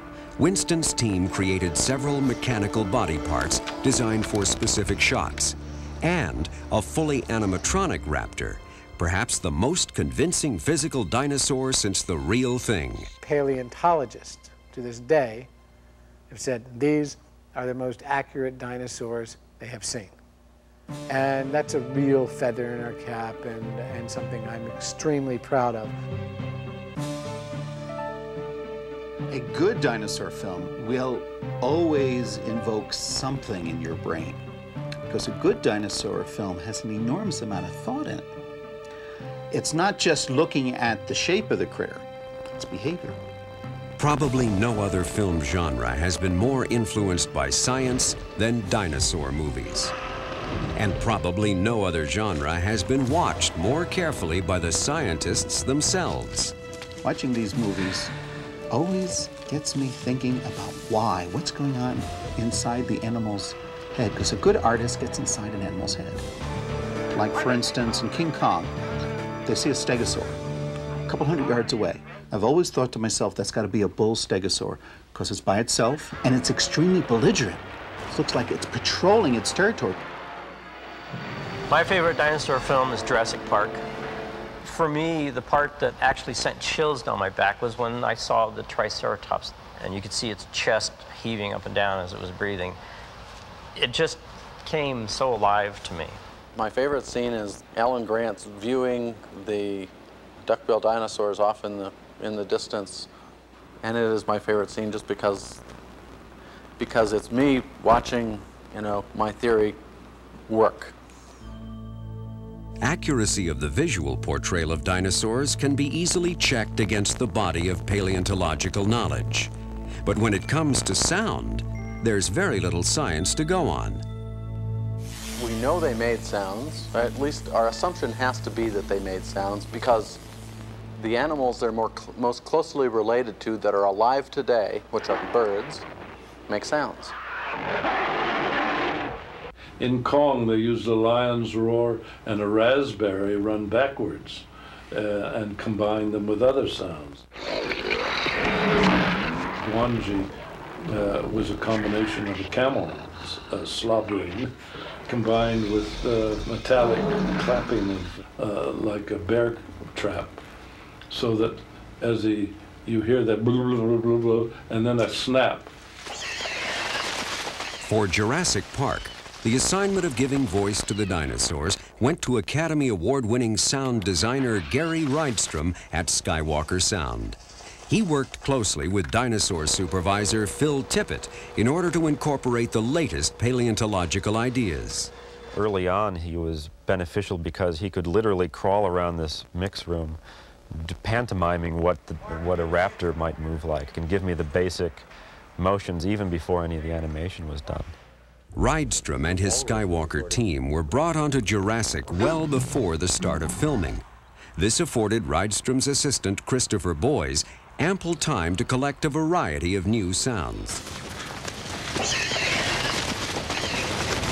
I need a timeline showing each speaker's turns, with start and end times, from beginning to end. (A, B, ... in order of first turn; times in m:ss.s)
0:00.4-0:13.1 A
0:13.2-0:15.5 B
0:16.3-0:20.1 B
0:21.1-0:25.9 B
0:29.3-0:34.4 C
0:35.1-0:38.3 C
0:39.5-0:43.2 C
0:44.0-0:49.9 A
0:50.8-0:56.5 A
0:57.0-0:58.1 C
0:58.7-1:06.2 C
1:07.1-1:08.8 C
1:09.4-1:10.4 C
1:11.1-1:20.0 C
1:21.7-1:23.8 D
1:24.6-1:32.8 D
1:33.7-1:36.2 D
1:36.5-1:43.1 E
1:43.8-1:45.6 E
1:46.8-1:49.8 E
1:50.5-1:50.9 E
1:52.8-1:59.5 A
2:00.0-2:04.0 A
2:05.4-2:10.2 E
2:11.0-2:15.8 E
2:16.5-2:17.1 E
2:19.8-2:27.2 F
2:29.6-2:30.3 F
2:30.8-2:34.5 F
2:35.1-2:40.4 F
2:41.1-2:45.7 F
2:47.8-3:05.1 A
3:05.5-3:10.2 G
3:10.7-3:15.1 G
3:15.6-3:17.9 G
3:18.6-3:24.0 A
3:24.6-3:30.8 A